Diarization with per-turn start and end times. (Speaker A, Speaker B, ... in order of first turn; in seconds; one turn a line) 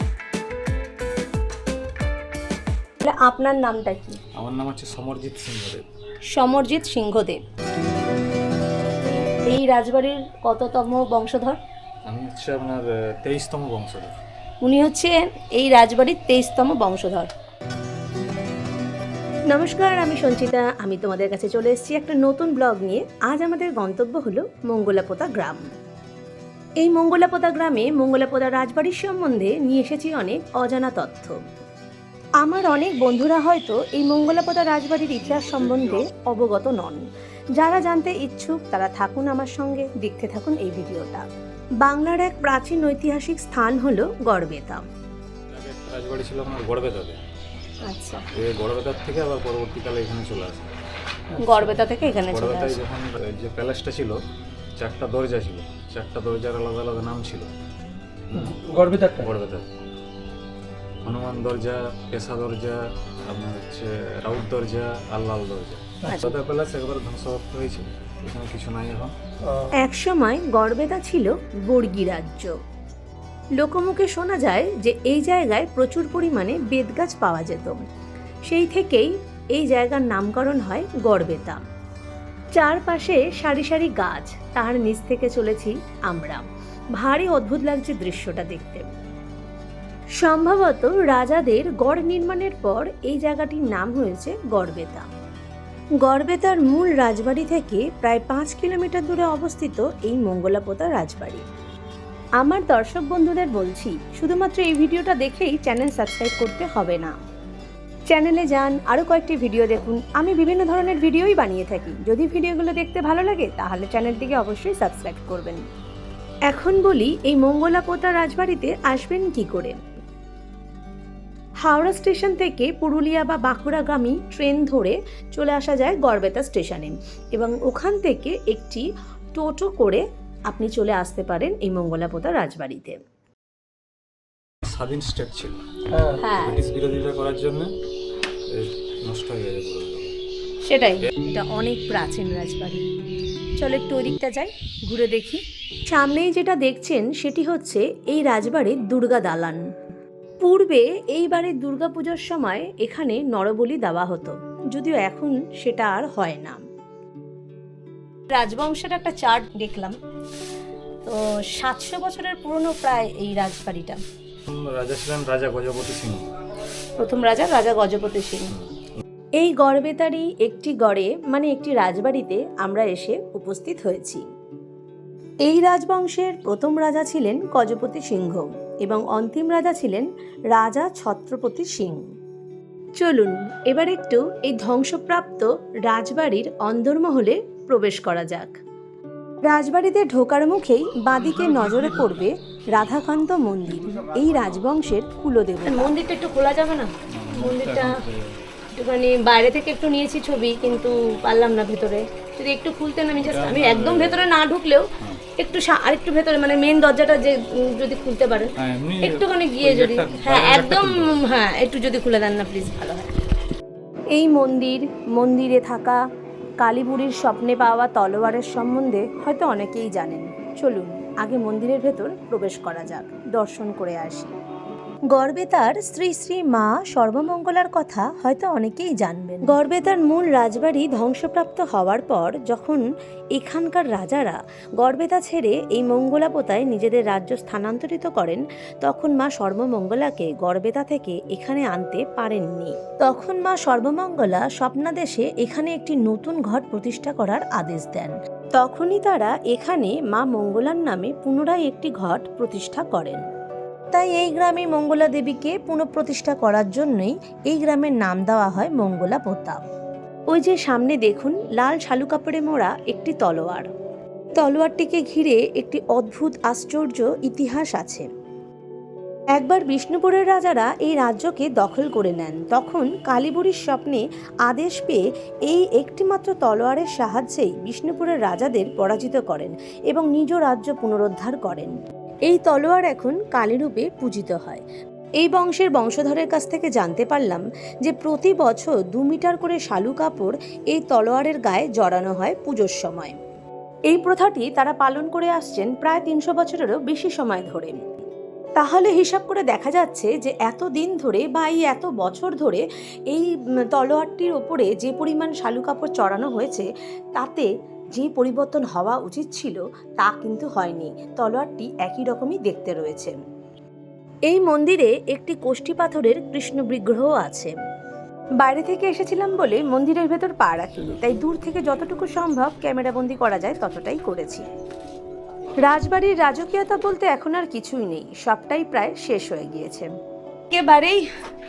Speaker A: 3.0-4.2
Speaker B: 4.3-5.8
Speaker A: 6.3-7.4
Speaker A: 9.4-11.6
Speaker B: 12.1-14.2
Speaker A: 14.6-17.3
Speaker A: 19.5-25.6
Speaker A: 26.8-31.4
Speaker A: 32.4-37.0
Speaker A: 37.6-41.2
Speaker A: 41.8-44.8
Speaker B: 45.5-47.2
Speaker A: 47.8-48.3
Speaker B: 48.3-50.8
Speaker C: 51.3-51.8
Speaker A: 51.4-52.8
Speaker B: 52.3-54.2
Speaker B: 54.8-57.5
Speaker B: 58.3-58.6
Speaker C: 58.4-59.3
Speaker B: 59.2-59.7
Speaker B: 61.0-69.1
Speaker A: 66.0-66.3
Speaker C: 69.4-69.7
Speaker A: 69.7-72.6
Speaker A: 73.6-77.8
Speaker A: 78.5-81.6
Speaker A: 82.5-86.4
Speaker A: 87.0-88.9
Speaker A: 90.2-95.1
Speaker A: 96.0-101.4
Speaker A: 102.4-107.2
Speaker A: 108.1-115.6
Speaker A: 116.5-119.8
Speaker A: 121.6-133.0
Speaker B: 134.6-135.6
Speaker C: 135.9-136.2
Speaker A: 136.2-136.6
Speaker B: 136.3-137.7
Speaker B: 138.5-140.2
Speaker A: 140.6-142.8
Speaker A: 143.6-149.6
Speaker A: 150.4-156.6
Speaker A: 158.3-160.0
Speaker A: 161.0-164.0
Speaker B: 164.5-166.3
Speaker A: 167.0-168.5
Speaker B: 168.5-168.8
Speaker A: 169.4-174.2
Speaker A: 175.4-182.1
Speaker A: 183.0-188.6
Speaker A: 189.4-198.0
Speaker B: 197.1-198.4
Speaker A: 198.7-213.1
Speaker B: 203.2-204.3
Speaker B: 208.6-211.2
Speaker A: 214.1-216.0
Speaker A: 216.6-224.3
Speaker A: 225.1-232.8
Speaker A: 233.3-253.2
Speaker A: 253.9-259.6
Speaker A: 260.3-263.7
Speaker A: 264.4-268.1
Speaker A: 269.3-284.6
Speaker A: 285.2-293.2
Speaker A: 293.9-297.9
Speaker A: 298.6-313.1
Speaker A: 314.3-317.5
Speaker A: 318.4-324.5
Speaker A: 325.6-329.9
Speaker A: 330.5-331.1